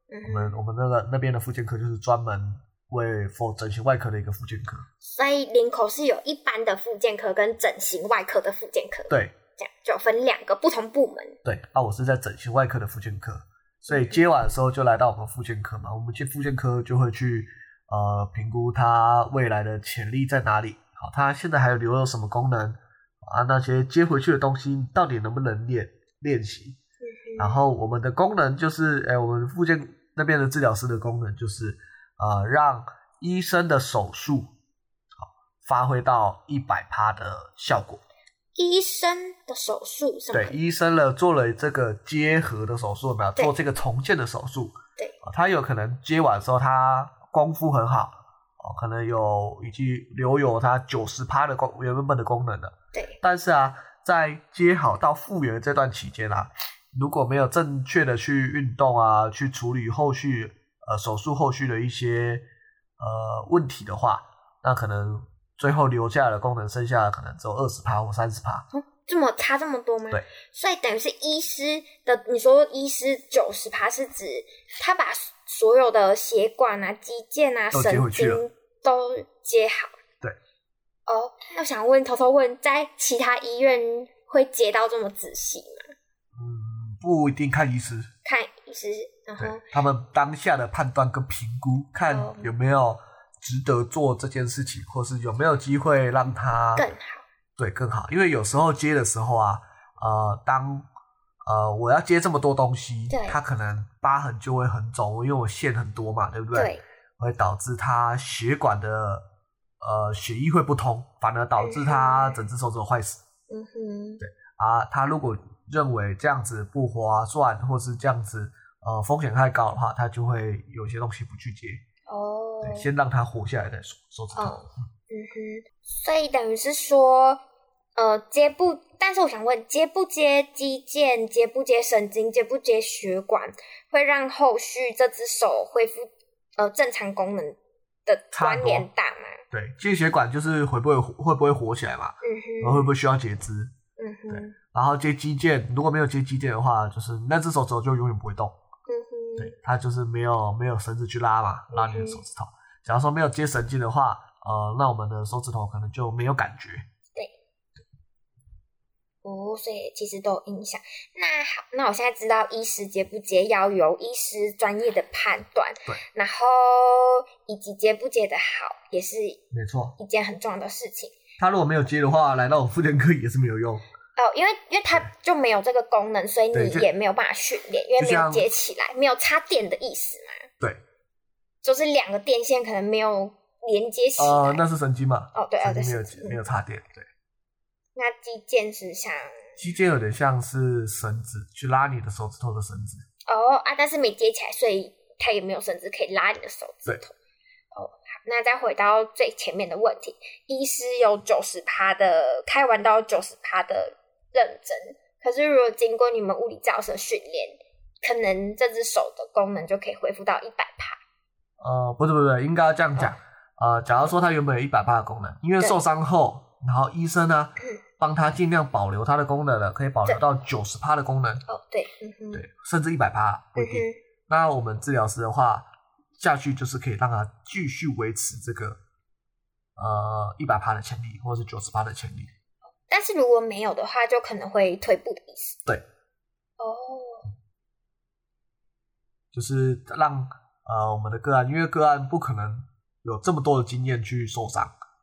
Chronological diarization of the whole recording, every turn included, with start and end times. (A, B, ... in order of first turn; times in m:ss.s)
0:00.1-0:00.6 A
0:00.2-0:04.8 B
0:05.0-0:11.4 A
0:09.1-0:09.3 B
0:11.4-0:26.8 B
0:13.9-0:14.2 A
0:27.0-0:27.6 A
0:27.4-0:34.5 B
0:35.2-0:38.0 B
0:38.6-0:40.6 A
0:40.3-1:02.4 B
1:03.0-1:08.6 B
1:08.7-1:20.0 A
1:17.7-1:18.4 B
1:21.1-1:25.9 A
1:26.3-1:28.1 B
1:28.2-1:29.6 A
1:29.4-1:36.9 B
1:32.0-1:32.5 A
1:36.8-1:37.2 A
1:37.6-1:40.9 B
1:41.4-1:49.2 B
1:43.1-1:43.4 A
1:46.5-1:46.8 A
1:49.8-1:53.2 B
1:51.6-1:52.4 A
1:53.5-1:54.2 A
1:54.2-2:01.8 B
2:02.1-2:02.9 A
2:02.6-2:04.6 B
2:04.4-2:07.4 A
2:08.0-2:19.4 A
2:18.3-2:18.9 B
2:19.5-2:23.7 B
2:22.2-2:22.9 A
2:24.0-2:24.6 A
2:24.3-2:28.6 B
2:28.9-2:29.5 A
2:29.4-2:36.8 B
2:31.7-2:32.2 A
2:39.2-2:49.4 A
2:49.5-2:50.0 B
2:50.0-2:51.2 A
2:51.4-2:53.8 B
2:54.2-3:00.5 A
2:56.5-2:56.9 B
2:58.0-2:58.4 B
3:01.6-3:04.6 A
3:04.2-3:07.1 B
3:05.3-3:06.4 A
3:08.0-3:09.6 A
3:09.6-3:13.0 B
3:13.3-3:17.1 A
3:17.7-3:31.0 A
3:31.6-3:41.4 B
3:41.4-3:42.4 A
3:42.3-3:45.7 B
3:43.6-3:44.0 A
3:46.2-3:48.8 B
3:49.8-3:52.3 B
3:52.9-3:55.6 A
3:56.6-3:57.3 A
3:59.3-4:04.7 B